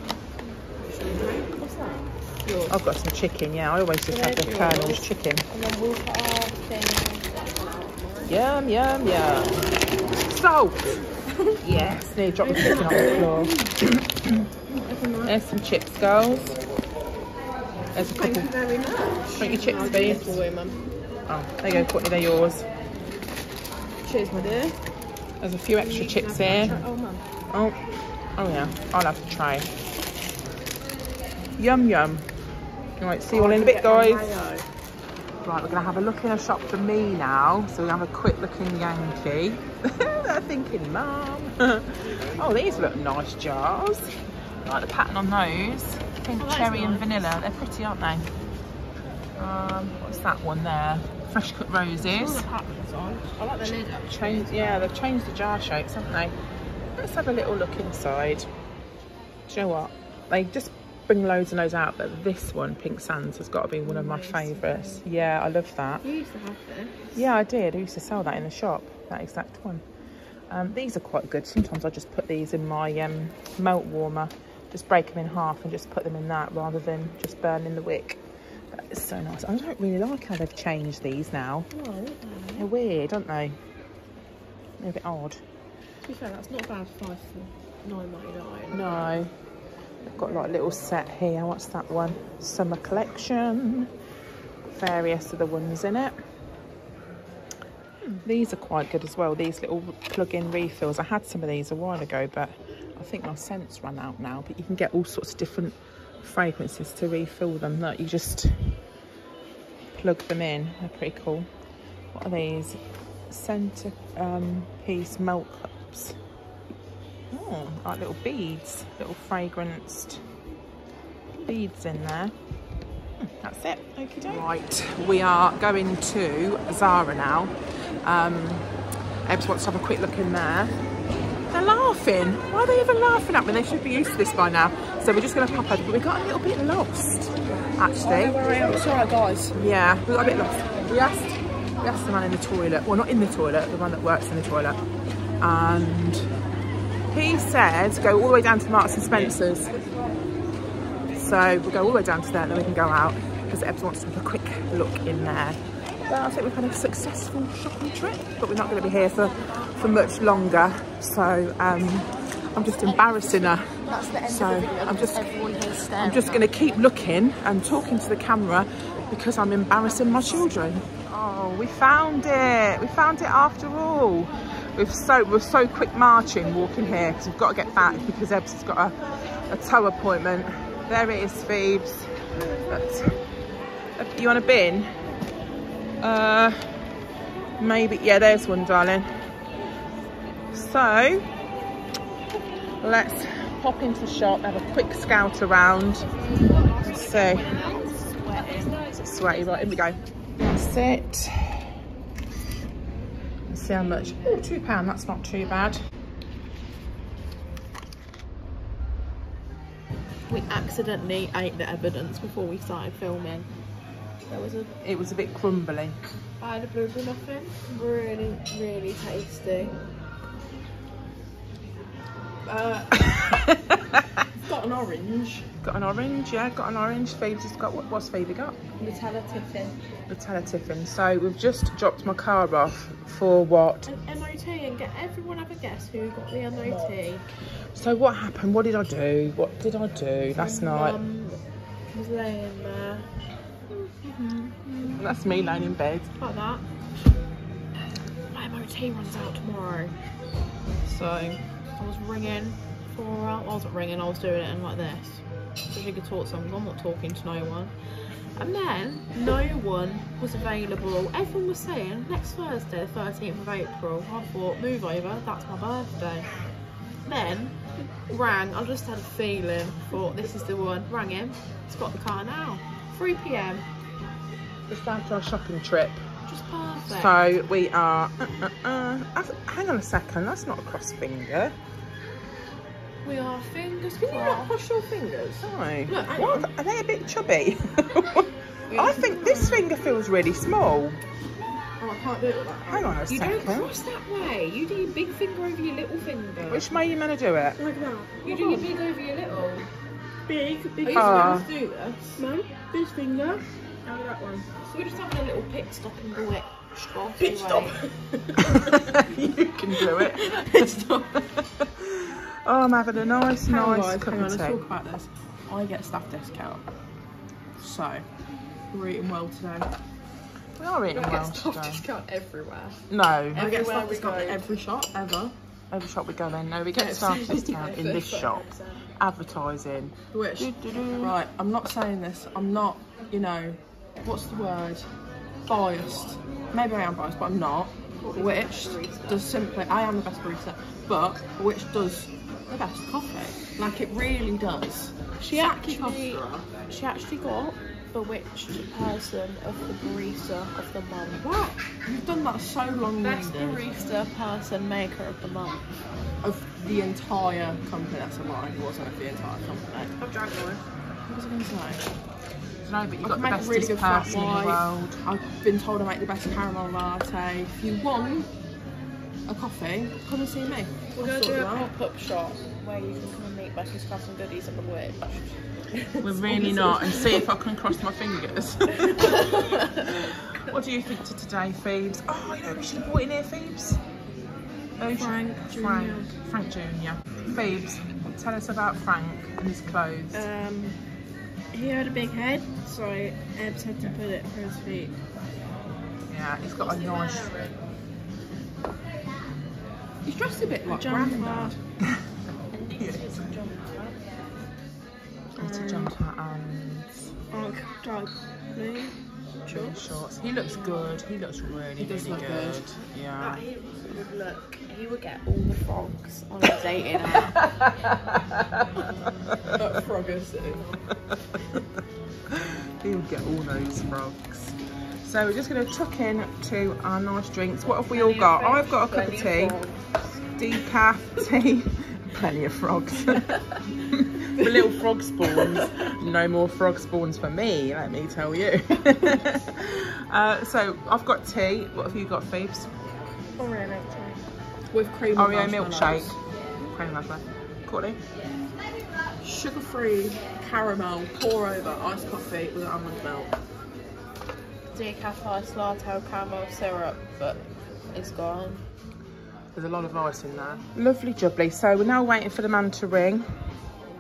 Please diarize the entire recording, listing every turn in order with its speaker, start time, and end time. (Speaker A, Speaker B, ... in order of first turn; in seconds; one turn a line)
Speaker A: 0.9-1.5
Speaker B: 1.0-2.8
Speaker C: 2.7-5.5
Speaker B: 4.1-8.3
Speaker C: 8.2-11.0
Speaker A: 11.3-11.5
Speaker C: 11.6-14.4
Speaker B: 12.4-13.5
Speaker A: 12.6-13.6
Speaker A: 14.8-15.3
Speaker C: 15.2-16.6
Speaker C: 17.9-18.5
Speaker A: 18.0-20.8
Speaker C: 19.3-20.3
Speaker B: 19.3-20.9
Speaker C: 21.3-22.7
Speaker A: 24.0-24.8
Speaker C: 25.4-26.8
Speaker B: 25.8-27.2
Speaker A: 26.4-26.9
Speaker C: 27.5-27.8
Speaker C: 28.4-29.7
Speaker C: 31.6-32.3
Speaker C: 33.0-34.4
Speaker A: 33.3-34.6
Speaker C: 35.4-44.1
Speaker C: 44.7-48.3
Speaker B: 46.3-47.2
Speaker B: 49.4-49.7
Speaker C: 49.6-52.5
Speaker B: 52.0-54.9
Speaker C: 53.6-56.4
Speaker C: 57.0-58.5
Speaker C: 59.5-66.0
Speaker B: 63.9-65.0
Speaker B: 66.0-67.1
Speaker C: 67.1-69.8
Speaker C: 70.5-81.7
Speaker B: 81.7-82.7
Speaker C: 82.6-83.6
Speaker C: 84.8-85.4
Speaker B: 86.0-89.2
Speaker C: 88.7-89.3
Speaker C: 90.0-93.9
Speaker C: 94.7-96.2
Speaker C: 98.2-108.8
Speaker C: 109.9-111.5
Speaker C: 112.1-116.2
Speaker C: 117.3-120.2
Speaker C: 121.5-122.3
Speaker C: 123.2-130.8
Speaker C: 131.5-138.4
Speaker A: 137.9-139.6
Speaker C: 139.5-144.8
Speaker C: 145.4-146.3
Speaker C: 147.1-149.7
Speaker C: 151.2-165.3
Speaker B: 162.8-166.7
Speaker A: 163.8-165.0
Speaker C: 166.0-183.2
Speaker B: 169.8-170.6
Speaker C: 184.0-185.0
Speaker C: 186.0-186.7
Speaker C: 187.6-189.2
Speaker C: 190.5-191.3
Speaker C: 192.8-196.1
Speaker B: 196.0-198.9
Speaker C: 196.8-197.5
Speaker C: 199.0-201.7
Speaker C: 203.5-205.8
Speaker B: 203.7-204.5
Speaker B: 210.3-213.5
Speaker B: 214.3-214.7
Speaker C: 214.8-216.0
Speaker B: 216.4-219.8
Speaker A: 222.5-223.1
Speaker C: 223.0-224.2
Speaker A: 224.4-225.5
Speaker C: 225.6-228.6
Speaker B: 228.8-229.8
Speaker C: 230.1-233.9
Speaker B: 233.9-237.3
Speaker C: 237.8-241.0
Speaker B: 240.3-241.4
Speaker B: 241.9-243.1
Speaker B: 243.8-245.1
Speaker C: 245.0-246.1
Speaker B: 246.2-246.7
Speaker B: 248.3-249.9
Speaker B: 250.8-257.7
Speaker B: 258.4-266.4
Speaker B: 267.0-273.7
Speaker C: 274.7-276.1
Speaker B: 276.3-277.2
Speaker C: 276.9-281.6
Speaker B: 283.0-284.6
Speaker A: 284.1-286.5
Speaker C: 285.4-291.0
Speaker B: 288.7-289.6
Speaker A: 289.1-289.6
Speaker A: 291.8-293.0
Speaker C: 292.7-293.7
Speaker B: 293.1-296.8
Speaker C: 296.4-297.6
Speaker A: 297.6-298.7
Speaker B: 298.2-299.7
Speaker A: 300.3-301.4
Speaker B: 300.8-302.5
Speaker C: 300.9-301.5
Speaker A: 302.2-304.5
Speaker B: 304.6-307.8
Speaker A: 307.2-308.7
Speaker C: 308.4-310.8
Speaker A: 309.8-311.2
Speaker C: 311.6-314.6
Speaker A: 313.4-316.6
Speaker A: 317.6-318.1
Speaker A: 318.7-319.7
Speaker C: 320.6-321.9
Speaker B: 320.9-324.4
Speaker C: 322.9-323.4
Speaker A: 323.3-325.3
Speaker C: 325.7-331.2
Speaker A: 326.7-328.1
Speaker B: 327.3-328.8
Speaker A: 330.1-334.9
Speaker A: 335.4-346.5
Speaker B: 338.0-339.3
Speaker B: 345.2-351.3
Speaker A: 351.2-353.7
Speaker B: 353.0-355.7
Speaker A: 356.2-359.9
Speaker B: 359.8-360.6
Speaker A: 361.1-361.9
Speaker C: 362.6-365.0
Speaker A: 363.0-368.3
Speaker A: 369.3-371.7
Speaker B: 371.0-375.4
Speaker C: 376.0-383.8
Speaker B: 376.2-377.3
Speaker B: 378.9-380.1
Speaker C: 384.8-390.3
Speaker A: 385.0-386.1
Speaker B: 385.1-385.8
Speaker B: 390.1-390.8
Speaker B: 391.5-395.0
Speaker C: 396.1-397.5
Speaker B: 396.5-397.6
Speaker A: 400.1-401.6
Speaker B: 400.6-401.6
Speaker B: 402.5-404.2
Speaker C: 402.8-403.1
Speaker C: 405.4-407.1
Speaker B: 405.4-405.9
Speaker B: 407.3-409.0
Speaker C: 409.5-413.4
Speaker B: 409.5-409.8
Speaker B: 410.5-410.9
Speaker A: 411.8-412.7
Speaker B: 413.1-417.4
Speaker C: 417.2-419.5
Speaker A: 419.5-420.8
Speaker C: 422.3-429.6
Speaker B: 427.9-430.1
Speaker C: 430.3-442.7
Speaker A: 434.4-435.7
Speaker B: 443.4-444.3
Speaker A: 444.7-446.2
Speaker C: 445.1-446.1
Speaker C: 446.6-448.0
Speaker A: 449.2-453.3
Speaker B: 454.7-458.6
Speaker C: 459.6-463.3